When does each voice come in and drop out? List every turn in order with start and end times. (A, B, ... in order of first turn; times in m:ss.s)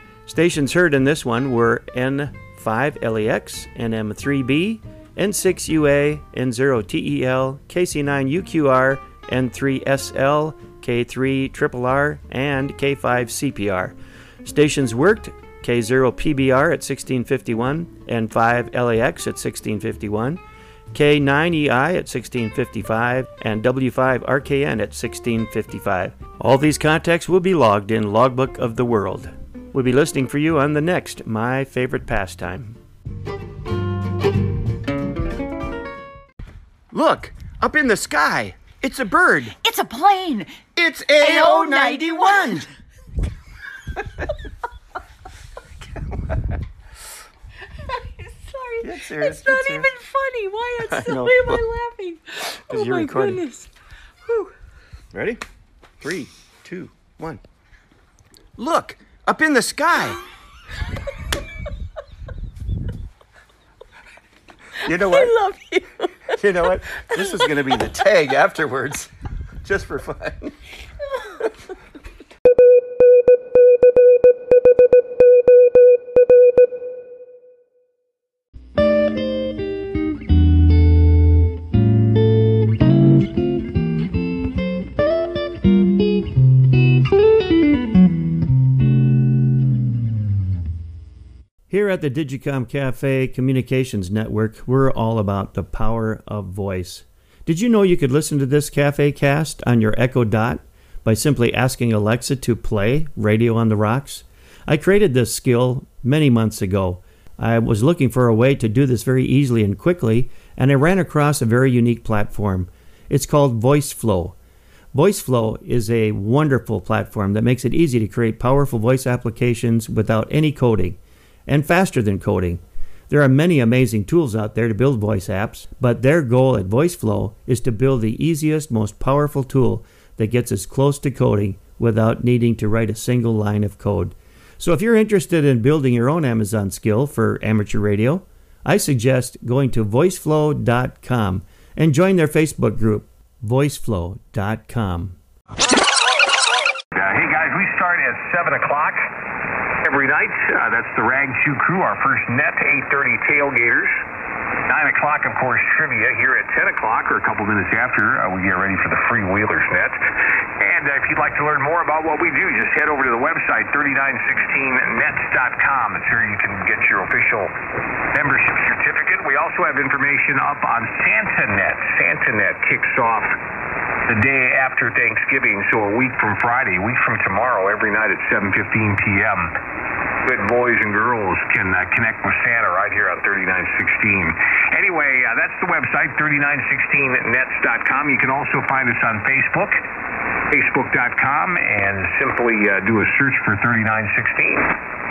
0:00.2-0:20.4 A
0:20.9-0:32.8 A
0:36.9-0:39.5 A
0:39.6-0:40.6 B
0:40.7-0:42.6 A
0:41.2-0:42.7 B
0:45.9-0:46.6 A
0:48.2-0:53.7 B
0:48.8-0:49.9 A
0:50.8-0:51.6 A
0:52.6-0:53.5 A
0:54.2-0:54.5 B
0:55.1-0:55.4 A
0:56.0-0:57.4 A
0:58.6-1:00.2 A
1:04.8-1:05.4 A
1:04.8-1:07.9 B
1:06.3-1:09.1 A
1:09.6-1:10.6 A
1:31.7-1:54.4 A
1:54.9-2:25.2 A
2:26.9-2:29.1 C
2:29.8-2:33.9 C
2:34.7-2:40.0 C
2:40.6-2:47.5 C
2:48.1-2:53.4 C
2:54.1-2:59.5 C
3:00.2-3:09.8 C
3:10.5-3:14.8 C